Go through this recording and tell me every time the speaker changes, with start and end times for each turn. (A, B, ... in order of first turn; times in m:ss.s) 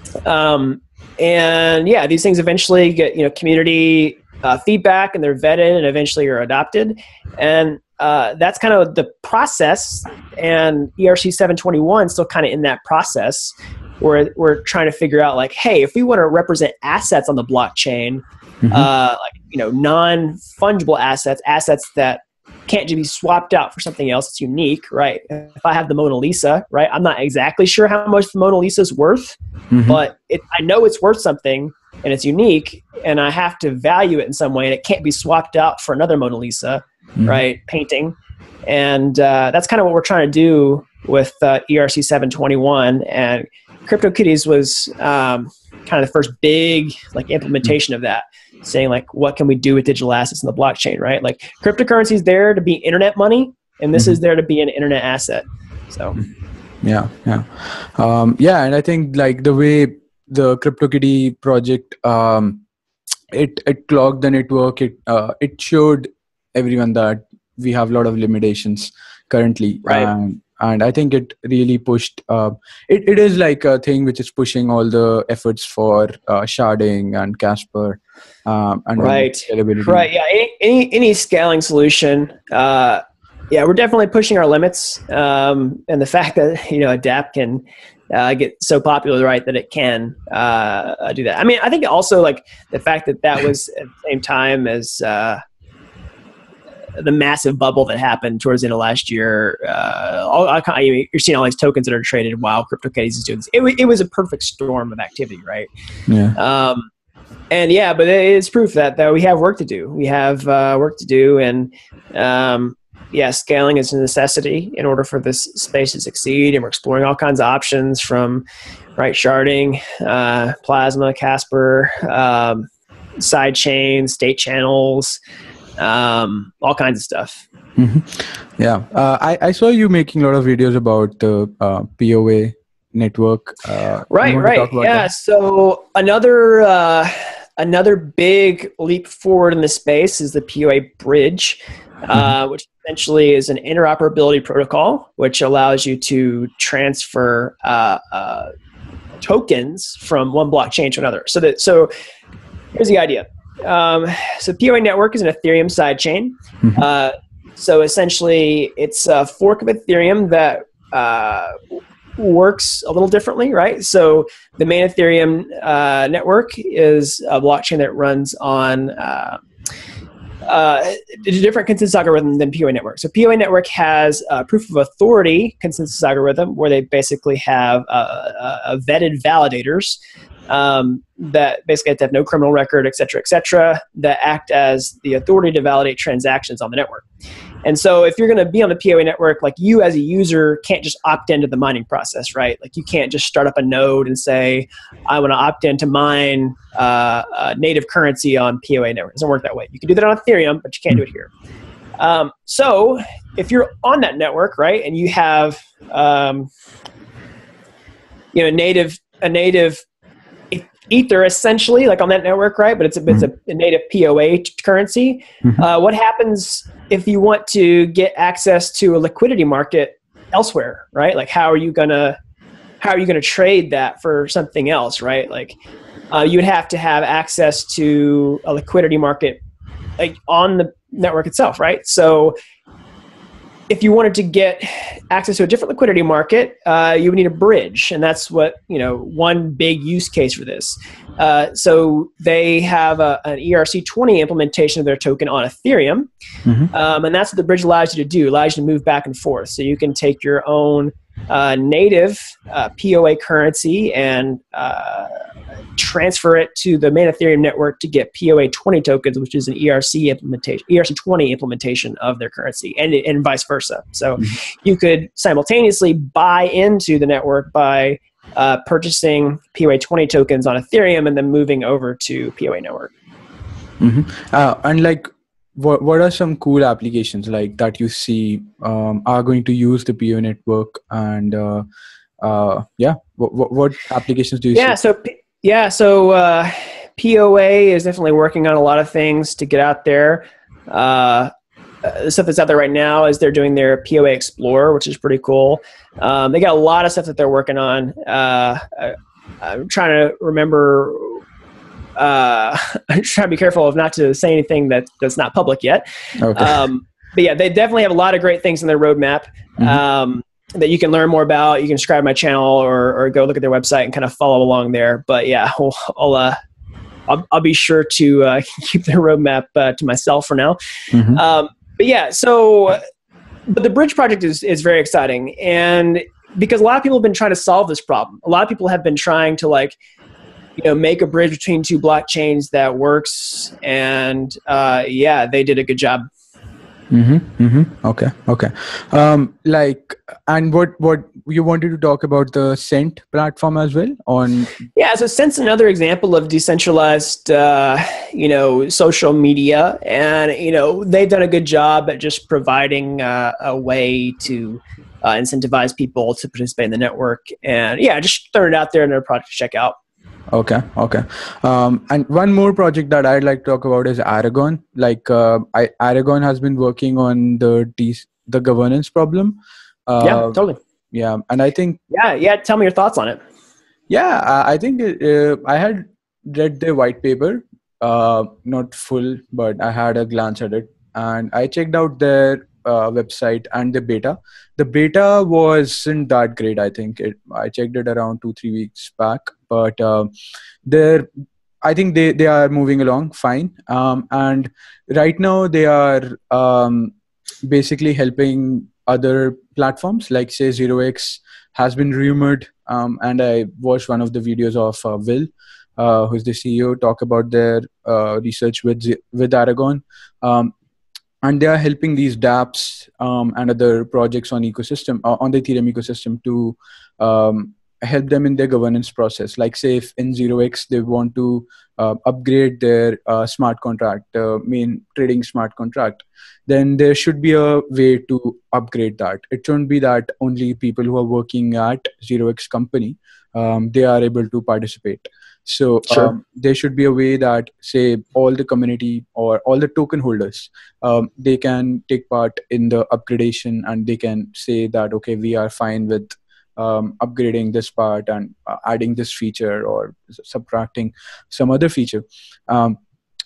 0:00.2-0:38.2 A
0:18.6-0:18.9 B
0:29.7-0:30.0 B
0:37.2-0:37.4 B
0:38.7-0:56.2 A
0:56.8-1:02.6 B
1:03.3-1:20.1 B
1:09.9-1:10.1 A
1:19.0-1:35.4 A
1:37.0-1:45.7 A
1:46.1-1:46.4 B
1:46.4-1:46.9 A
1:47.5-1:58.4 A
1:59.0-2:02.7 A
2:03.2-2:05.2 A
2:05.8-2:07.4 A
2:07.8-2:15.1 B
2:14.1-2:28.5 A
2:29.2-2:31.9 A
2:32.7-2:41.6 A
2:42.2-2:49.4 A
2:50.4-3:07.1 A
3:07.6-3:21.3 A
3:22.0-3:26.5 A
3:28.3-3:29.8 A
3:30.5-3:42.2 A
3:42.8-3:45.6 A
3:46.1-3:49.4 A
3:50.0-3:52.4 A
3:53.7-4:06.1 A
4:06.7-4:15.2 A
4:15.8-4:32.9 A
4:33.8-4:41.6 B
4:42.2-4:44.8 B
4:44.5-4:51.3 A
4:51.8-5:01.2 A
5:02.0-5:16.4 A
5:06.2-5:06.7 B
5:17.1-5:20.6 A
5:20.9-5:21.2 B
5:21.1-5:22.8 A
5:23.5-5:29.8 A
5:30.6-5:36.0 A
5:36.9-5:44.6 B
5:44.8-5:59.8 A
6:00.3-6:10.4 B
6:10.0-6:10.6 A
6:10.9-6:11.8 B
6:11.9-6:13.2 A
6:13.9-6:30.1 B
6:30.7-6:31.1 B
6:31.6-6:37.0 B
6:37.5-6:50.5 B
6:51.2-7:32.8 B
7:15.9-7:16.1 A